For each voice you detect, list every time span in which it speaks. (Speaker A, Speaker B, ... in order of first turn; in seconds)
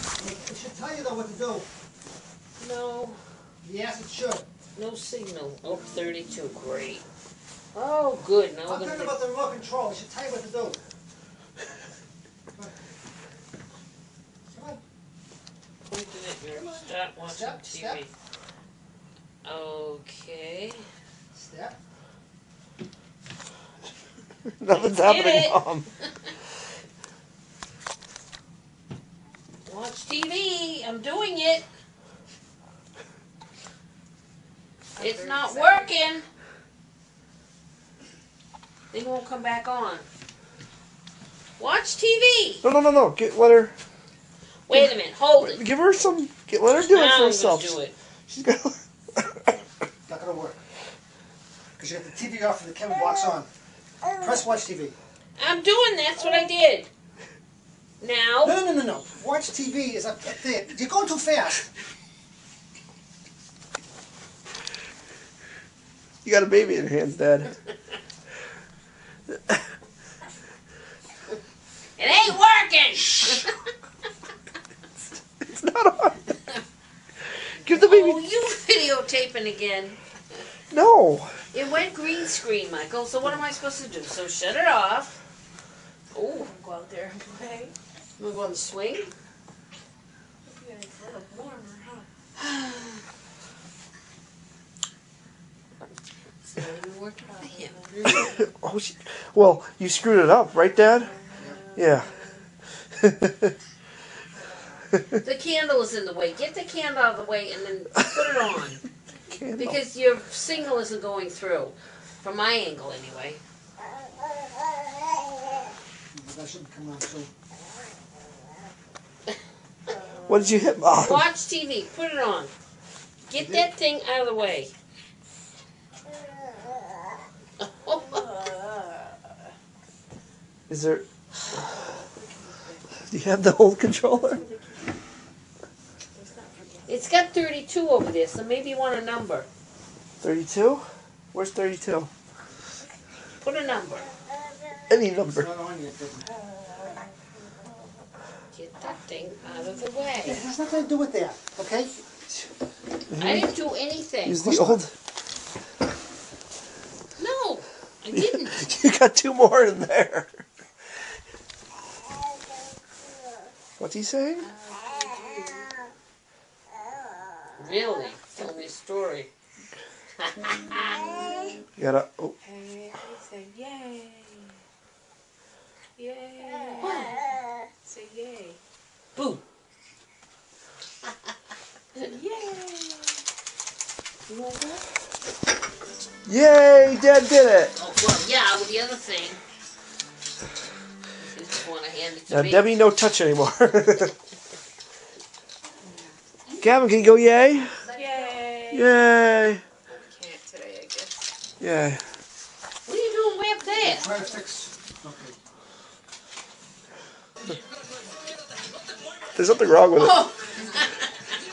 Speaker A: 0.2-1.6, 3.6-4.5, 8.7-10.8, 14.5-14.8, 16.5-18.0, 21.3-21.8, 50.1-50.6, 51.8-53.5, 54.1-55.0, 58.4-61.7, 97.9-98.3, 116.1-117.3, 123.3-123.7, 145.3-146.3, 150.2-152.1, 154.4-154.8, 203.8-205.3
Speaker B: 2.6-3.2, 4.8-7.0, 7.7-9.2, 15.8-18.1, 19.4-20.8, 24.7-26.3, 29.6-31.7, 35.0-36.2, 38.9-40.0, 41.6-42.6, 44.7-45.6, 46.8-47.9, 55.4-56.9, 58.0-58.6, 72.0-73.5, 77.7-80.0, 81.5-85.1, 86.2-86.5, 88.2-89.1, 92.4-93.0, 97.3-97.8, 105.2-108.8, 109.6-113.4, 121.0-122.5, 123.3-124.7, 127.6-128.2, 136.9-139.5, 143.4-144.1, 148.5-150.4, 153.2-154.4, 157.2-158.6, 167.6-169.3, 170.2-171.2, 176.8-177.2, 179.2-179.4, 184.3-184.8, 187.8-189.4, 191.2-192.7, 197.8-198.3, 202.8-204.1, 209.9-211.1
Speaker C: 24.5-25.9, 42.6-43.7, 44.7-47.8, 48.3-49.6, 66.2-67.5, 69.3-69.6, 75.4-76.2, 77.6-78.2, 80.7-81.3, 98.1-101.2, 101.8-102.1, 102.9-103.5, 109.3-109.8, 120.3-121.3, 130.7-131.0, 133.1-134.4, 140.2-142.1, 144.9-145.5, 153.1-153.5, 154.2-154.9, 158.1-160.4, 163.8-164.5, 171.8-172.3, 186.2-187.7, 192.3-194.1, 196.6-197.8, 198.7-199.6, 201.6-202.0, 209.3-210.2
Speaker D: 35.0-36.0, 86.2-87.7, 90.4-92.1, 96.5-98.2, 101.1-102.3, 119.8-120.7, 127.9-129.5, 131.4-132.9, 134.2-134.9, 136.1-136.9, 146.2-148.0, 149.4-149.9, 164.4-165.7, 170.9-171.3, 172.4-174.6, 176.0-178.6, 181.9-183.2, 195.8-196.2, 197.9-198.9, 199.9-201.3